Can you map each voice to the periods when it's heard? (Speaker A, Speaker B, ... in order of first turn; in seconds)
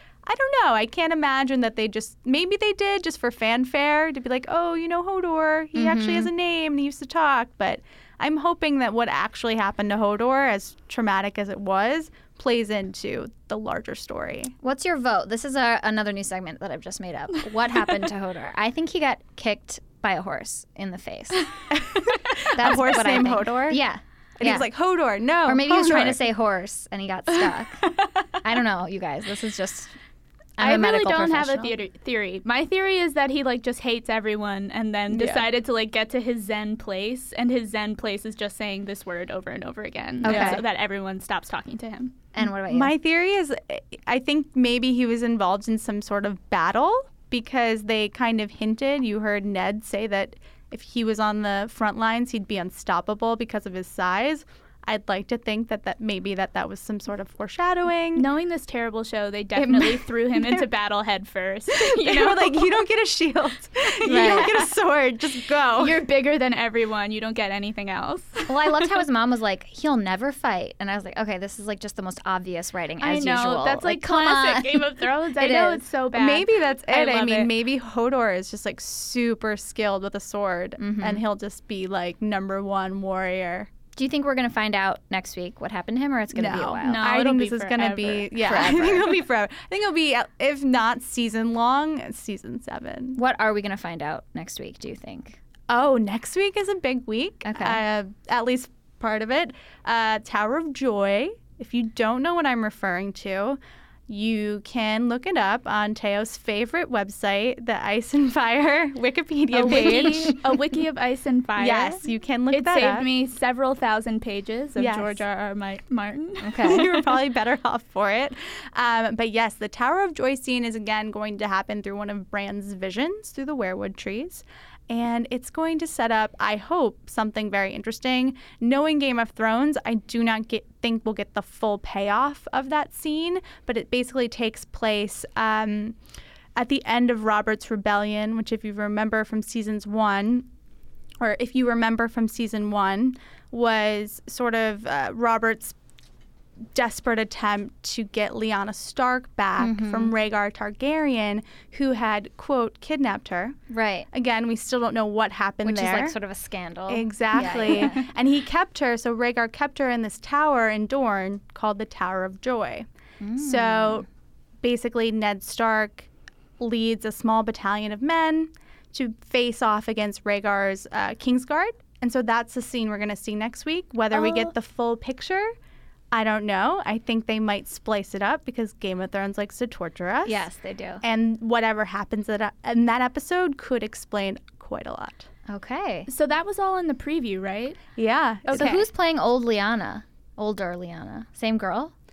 Speaker A: 0.2-14.5, 21.7-23.8, 24.4-26.2, 35.1-35.5, 40.2-40.6, 42.4-58.2, 59.5-60.7, 61.7-66.0, 76.1-83.7, 86.3-93.2, 95.7-110.4, 111.6-113.0, 114.8-115.2, 116.6-135.9, 136.6-140.5, 141.2-145.7, 146.7-153.6, 154.1-156.2, 156.9-162.8, 163.4-164.1, 164.6-166.1, 166.6-175.5, 176.1-180.4, 181.0-185.3, 187.9-188.8
Speaker B: 5.7-6.3, 14.6-21.5, 22.5-24.7, 25.4-27.9, 28.4-29.9, 30.6-31.7, 40.2-40.6, 42.3-42.9, 64.0-64.6, 68.5-75.8, 80.8-81.2, 84.0-87.0, 88.4-89.2, 93.2-95.4, 97.4-97.8, 109.6-110.3, 116.4-116.8, 149.6-150.1, 153.7-154.1, 155.6-158.1, 163.2-164.0, 180.2-181.0, 185.5-186.1, 188.5-191.9
Speaker C: 22.1-22.5, 30.6-42.1, 58.1-62.8, 63.9-64.7, 65.8-68.8, 73.0-77.5, 86.8-88.4, 109.5-117.1, 186.1-187.8, 188.5-188.7